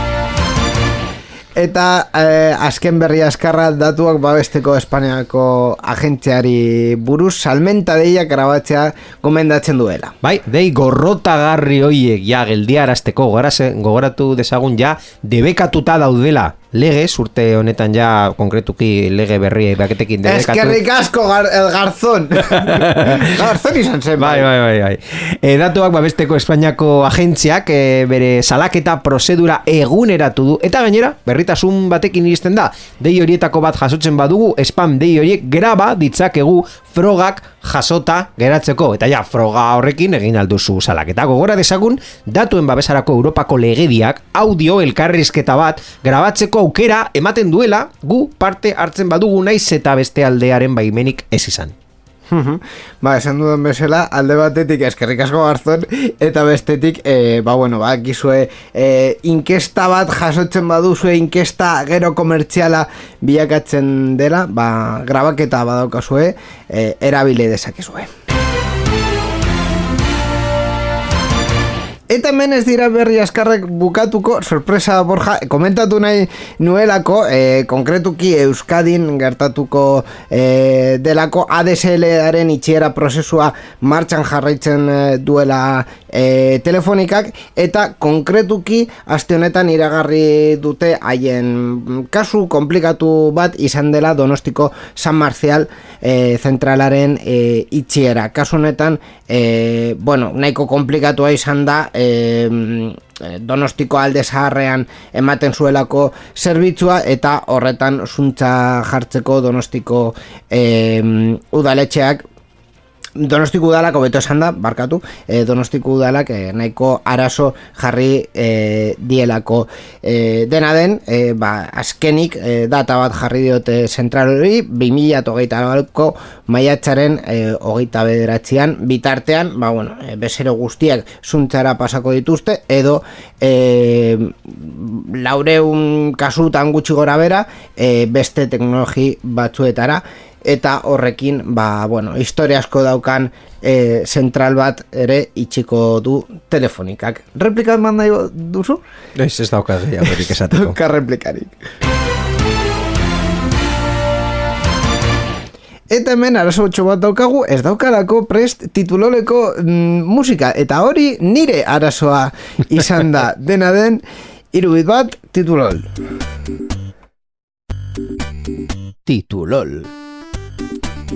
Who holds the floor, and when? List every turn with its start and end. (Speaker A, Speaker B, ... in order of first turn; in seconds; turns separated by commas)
Speaker A: 1.6-10.1, Speaker B: 10.2-20.8, Speaker A: 20.2-24.5, Speaker B: 22.4-23.5, Speaker B: 24.2-51.7, Speaker A: 52.3-68.1, Speaker A: 72.1-112.2, Speaker A: 113.2-148.8, Speaker B: 149.2-150.8, Speaker A: 150.2-151.5, Speaker A: 155.9-164.0, Speaker A: 164.5-165.9, Speaker B: 169.1-169.9